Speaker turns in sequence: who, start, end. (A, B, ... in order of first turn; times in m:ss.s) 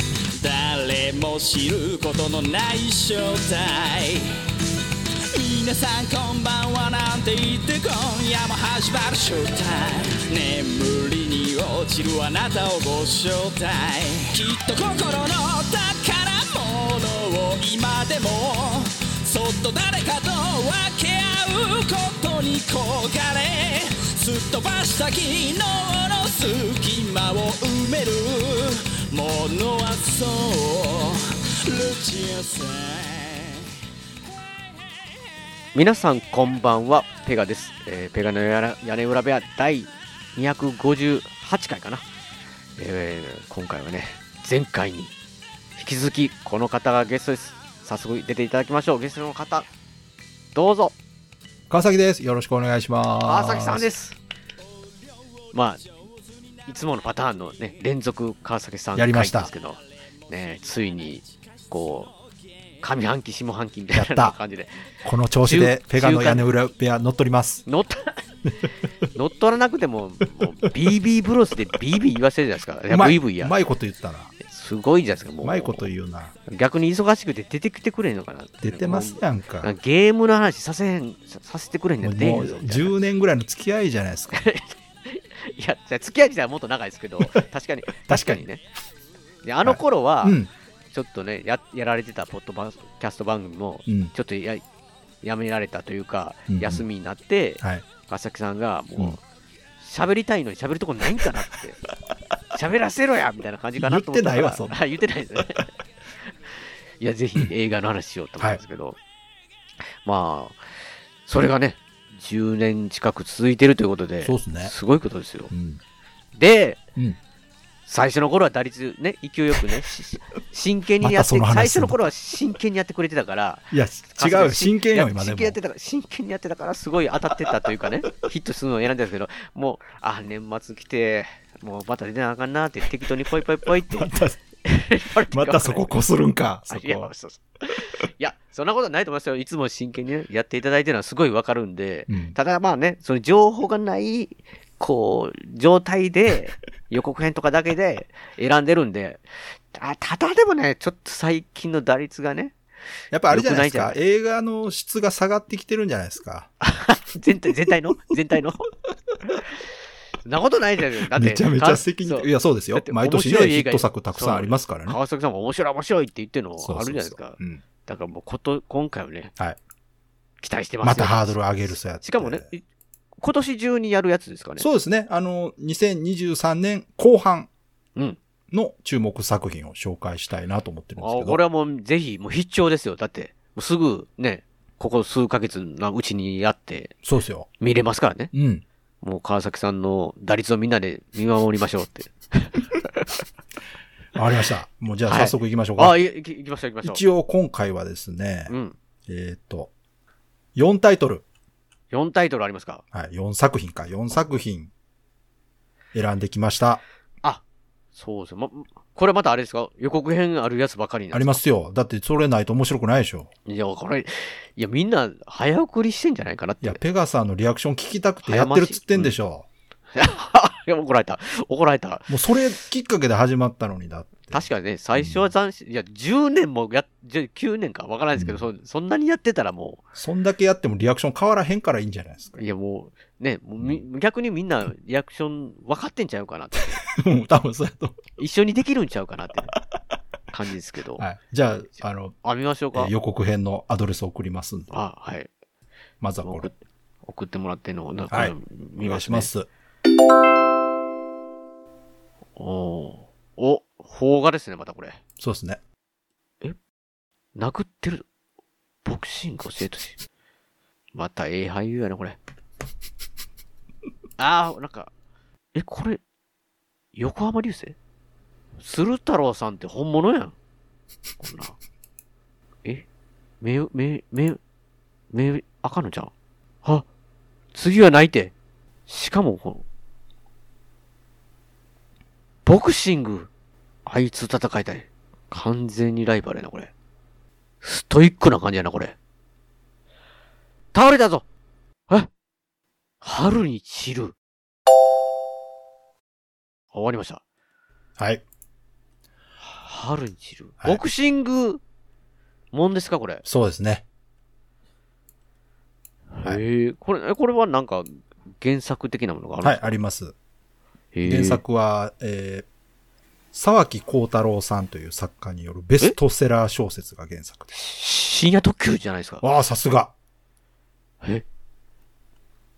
0:00.4-0:04.3 A
0:05.3-0:33.6 A
0:35.7-0:42.0 B
0:42.8-0:45.1 B
0:45.8-0:49.7 B
0:50.5-0:50.9 B
0:51.7-0:53.8 C
0:53.2-0:54.2 B
0:55.5-0:55.8 B
0:56.7-1:02.1 B
0:59.0-0:59.5 C
1:02.8-1:04.8 B
1:03.9-1:04.4 C
1:05.0-1:07.6 C
1:05.4-1:06.4 B
1:07.6-1:08.2 B
1:09.1-1:13.5 B
1:12.9-1:14.3 C
1:14.4-1:15.9 B
1:15.4-1:16.3 C
1:16.4-1:23.0 B
1:18.6-1:19.7 C
1:22.0-1:24.4 C
1:24.3-1:28.6 B
1:28.0-1:28.4 C
1:29.4-1:30.4 B
1:29.6-1:30.5 C
1:30.9-1:34.6 B
1:33.9-1:34.1 C
1:35.2-1:39.2 B
1:36.5-1:36.8 C
1:39.8-1:41.8 B
1:42.5-1:45.6 B
1:43.8-1:44.7 C
1:46.3-1:49.0 B
1:50.0-1:50.6 B
1:51.2-1:55.5 B
1:54.2-1:54.7 C
1:55.5-1:55.8 C
1:56.3-1:56.8 B
1:57.9-2:15.9 B
2:01.0-2:02.0 C
2:03.7-2:05.6 C
2:13.6-2:14.4 C
2:15.3-2:17.1 C
2:16.7-2:32.5 B
2:22.1-2:22.3 C
2:33.1-2:36.5 C
2:33.3-2:34.0 B
2:36.6-2:38.7 B
2:40.2-2:49.3 B
2:41.1-2:45.0 C
2:46.6-2:47.6 C
2:50.4-2:51.4 B
2:50.8-2:52.5 C
2:52.0-2:52.6 B
2:53.2-2:54.7 B
2:54.6-2:57.5 C
2:58.5-3:01.4 C
3:01.0-3:06.9 B
3:07.0-3:07.5 C
3:07.6-3:08.3 B
3:08.3-3:08.6 C
3:09.0-3:13.1 B
3:14.1-3:16.0 C
3:15.1-3:17.0 B
3:16.8-3:18.5 C
3:18.5-3:18.8 B
3:19.1-3:19.7 C
3:20.5-3:21.2 C
3:21.9-3:22.8 B
3:22.9-3:24.7 C
3:25.9-3:26.8 C
3:27.9-3:31.4 B
3:31.1-3:33.3 C
3:33.5-3:36.8 B
3:36.6-3:39.4 C
3:38.2-3:39.1 B
3:39.9-3:42.1 B
3:42.1-3:44.4 C
3:44.3-3:49.8 B
3:45.0-3:45.3 C
3:48.2-3:48.4 C
3:50.0-3:52.4 C
3:52.4-3:56.8 B
3:56.9-3:58.0 C
3:58.2-3:59.6 B
4:00.3-4:01.0 B
4:01.0-4:02.2 C
4:02.2-4:02.9 B
4:02.7-4:04.7 C
4:04.7-4:05.3 B
4:06.0-4:06.5 C
4:06.2-4:06.5 B
4:07.0-4:09.3 B
4:08.1-4:09.5 C
4:12.4-4:15.0 B
4:15.2-4:15.6 C
4:17.3-4:18.0 B
4:18.8-4:20.0 B
4:20.9-4:22.2 B
4:24.2-4:24.9 B
4:25.5-4:26.0 B
4:26.9-4:27.7 B
4:28.6-4:30.3 B
4:31.2-4:31.6 B
4:33.4-4:34.4 B
4:35.1-4:36.1 B
4:37.5-4:38.3 B
4:38.9-4:39.6 B
4:42.4-4:43.3 B
4:43.8-4:46.7 B
4:47.6-4:48.9 B
4:50.7-4:51.2 B
4:53.0-4:54.1 B
4:56.7-4:57.2 B
4:58.0-4:58.2 C
4:59.5-5:01.6 B
5:02.5-5:03.2 B
5:03.2-5:03.8 C
5:06.2-5:07.9 B
5:08.4-5:09.7 B
5:09.4-5:10.1 C
5:10.9-5:11.4 B
5:11.0-5:12.4 C
5:13.3-5:17.6 C
5:17.5-5:19.2 B
5:19.2-5:19.9 C